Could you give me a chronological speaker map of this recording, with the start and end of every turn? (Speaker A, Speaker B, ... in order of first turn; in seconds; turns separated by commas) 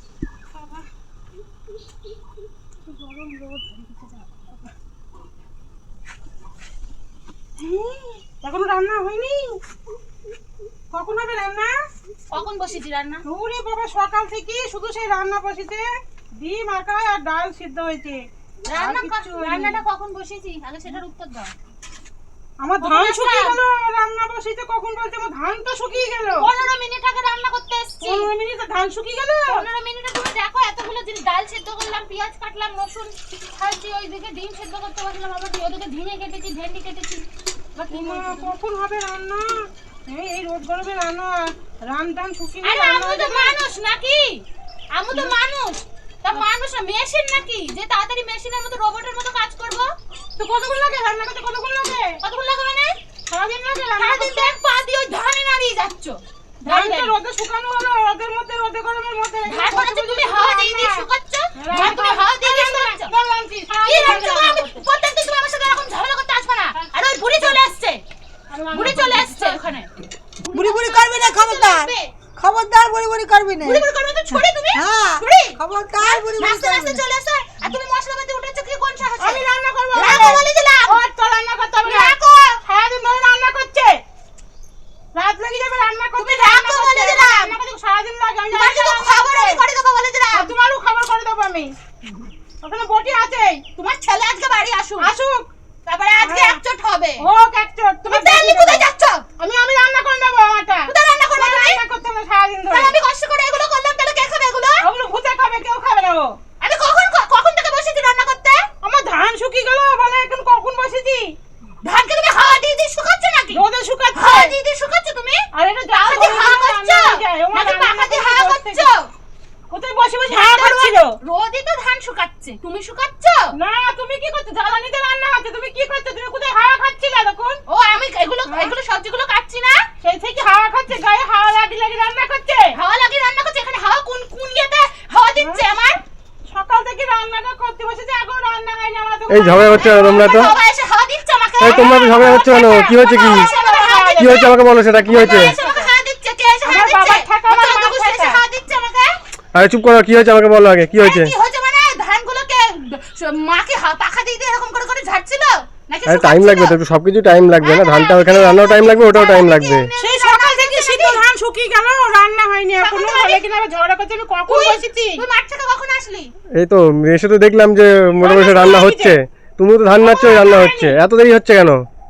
Speaker A: 2.9-4.3, Speaker B: 7.6-9.6, Speaker B: 10.9-11.7, Speaker A: 12.3-13.2, Speaker B: 13.2-19.8, Speaker A: 18.6-21.5, Speaker B: 22.6-26.4, Speaker A: 22.8-23.6, Speaker A: 26.4-28.3, Speaker B: 28.0-29.6, Speaker A: 29.5-37.2, Speaker A: 37.8-38.5, Speaker B: 37.9-43.6, Speaker A: 42.6-49.9, Speaker B: 50.4-52.2, Speaker A: 52.2-53.0, Speaker B: 53.3-54.5, Speaker A: 53.9-57.1, Speaker B: 56.6-61.0, Speaker A: 59.5-63.1, Speaker B: 61.6-64.8, Speaker A: 63.9-68.0, Speaker B: 68.5-69.5, Speaker A: 68.7-69.9, Speaker A: 70.5-72.1, Speaker C: 70.5-77.0, Speaker A: 73.6-81.0, Speaker B: 79.2-82.1, Speaker A: 81.8-82.6, Speaker B: 82.6-84.0, Speaker B: 85.1-89.6, Speaker A: 86.2-87.5, Speaker A: 88.5-90.5, Speaker B: 90.3-91.7, Speaker B: 92.6-93.6, Speaker A: 93.8-95.1, Speaker B: 95.0-95.5, Speaker A: 95.9-97.2, Speaker B: 96.2-96.6, Speaker B: 97.2-98.8, Speaker A: 98.0-99.2, Speaker B: 99.4-102.9, Speaker A: 100.9-101.8, Speaker A: 102.7-104.8, Speaker B: 104.8-106.3, Speaker A: 106.6-108.7, Speaker B: 108.8-111.3, Speaker A: 111.8-113.6, Speaker B: 113.5-114.5, Speaker A: 114.1-119.1, Speaker B: 115.5-118.8, Speaker B: 119.7-121.2, Speaker A: 120.3-123.5, Speaker B: 123.5-127.6, Speaker A: 127.7-129.8, Speaker B: 128.5-128.7, Speaker B: 130.0-132.7, Speaker A: 132.7-136.0, Speaker B: 136.5-140.6, Speaker D: 139.3-140.5, Speaker A: 139.7-144.5, Speaker D: 141.6-143.5, Speaker B: 141.7-144.5, Speaker D: 144.2-145.5, Speaker B: 145.0-145.9, Speaker A: 145.1-149.2, Speaker B: 146.6-148.4, Speaker D: 149.5-151.3, Speaker A: 150.9-156.8, Speaker D: 156.1-159.9, Speaker A: 157.6-161.2, Speaker B: 160.0-165.2, Speaker A: 162.8-163.4, Speaker A: 164.5-166.3, Speaker D: 166.6-171.9, Speaker B: 168.2-169.2, Speaker B: 170.0-171.0